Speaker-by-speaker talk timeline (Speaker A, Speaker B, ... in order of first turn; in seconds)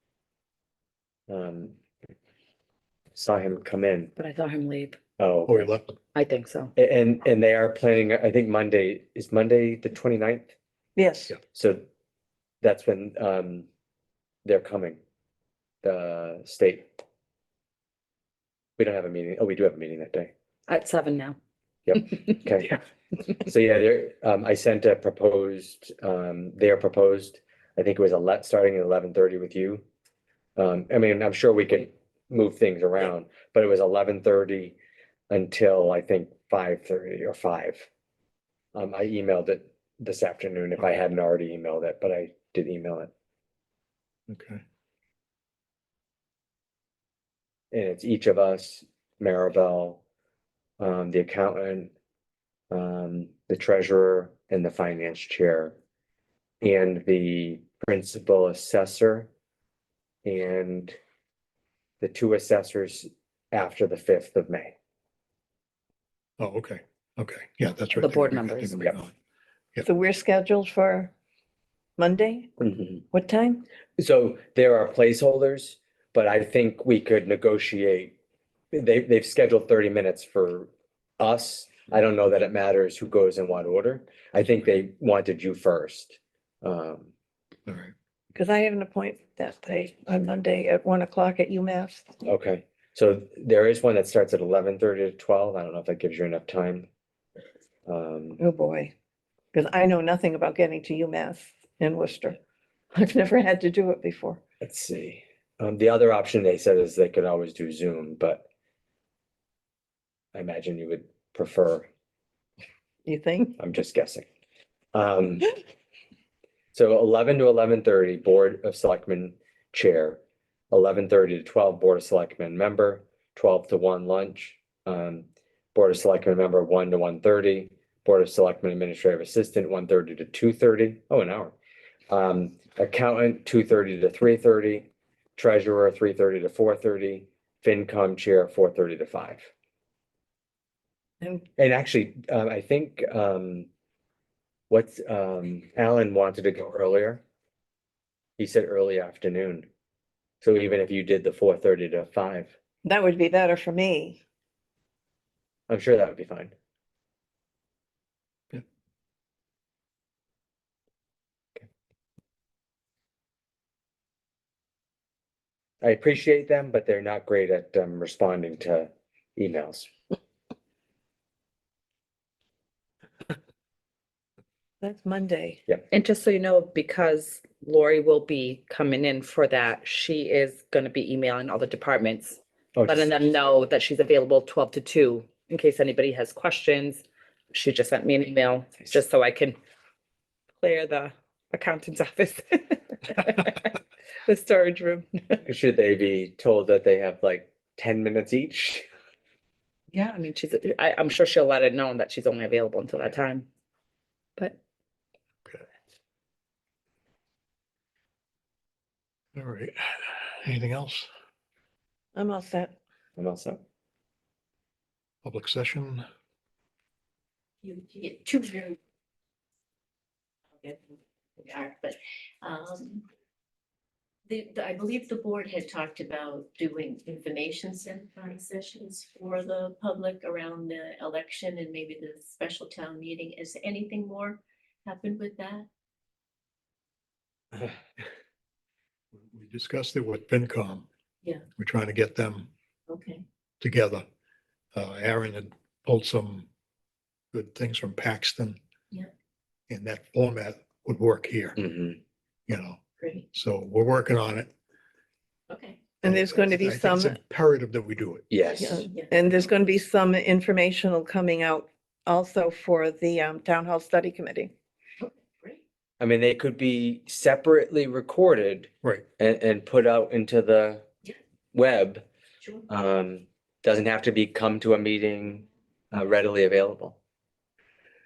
Speaker A: 1.3-1.8, 3.1-4.1, 5.2-5.7, 6.8-10.5, 11.5-11.8, 12.6-13.7, 14.4-15.0, 15.8-16.9, 18.8-20.3, 21.9-22.8, 23.3-29.8, 30.6-34.8, 35.3-37.9, 38.7-43.1, 47.7-50.0, 50.8-51.9, 52.7-55.8, 56.6-59.3, 60.2-61.0, 62.0-64.7, 72.6-73.0, 74.0-78.1, 78.7-87.1, 92.2-96.9, 97.9-98.4, 104.6-108.5, 110.3-111.9, 113.6-114.3, 114.9-115.6, 116.7-120.2, 120.7-131.6, 132.1-139.5, 141.6-143.7, 144.7-147.2, 148.4-149.7, 150.4-152.5, 155.7-156.5, 165.8-169.9, 182.8-183.1, 195.4-198.9, 213.2-213.6, 251.6-252.0, 258.3-258.9, 266.0-270.9, 271.5-272.1, 272.7-277.0
Speaker B: 4.2-5.0, 6.2-6.7, 20.7-21.4, 68.0-68.9, 175.9-189.6, 190.6-195.4, 199.9-203.5
Speaker C: 5.5-6.0, 44.3-44.6, 66.4-69.1, 87.7-87.9, 209.3-211.1, 215.2-216.1, 239.1-240.9, 241.6-242.5, 243.6-244.1, 244.7-246.5, 247.3-248.6, 249.7-251.6, 252.5-252.8, 253.3-254.5, 256.1-258.3
Speaker D: 11.0-11.3, 69.8-71.1, 72.0-72.5, 73.1-73.7, 88.3-92.2, 98.4-98.9, 99.5-102.4, 102.9-104.4, 113.0-113.6, 152.8-154.2, 174.8-175.6, 212.2-212.7, 256.0-257.1, 258.6-264.5
Speaker E: 217.6-218.8, 220.6-223.0, 224.3-235.7, 242.9-243.2, 255.5-255.8, 258.4-259.1, 265.0-265.6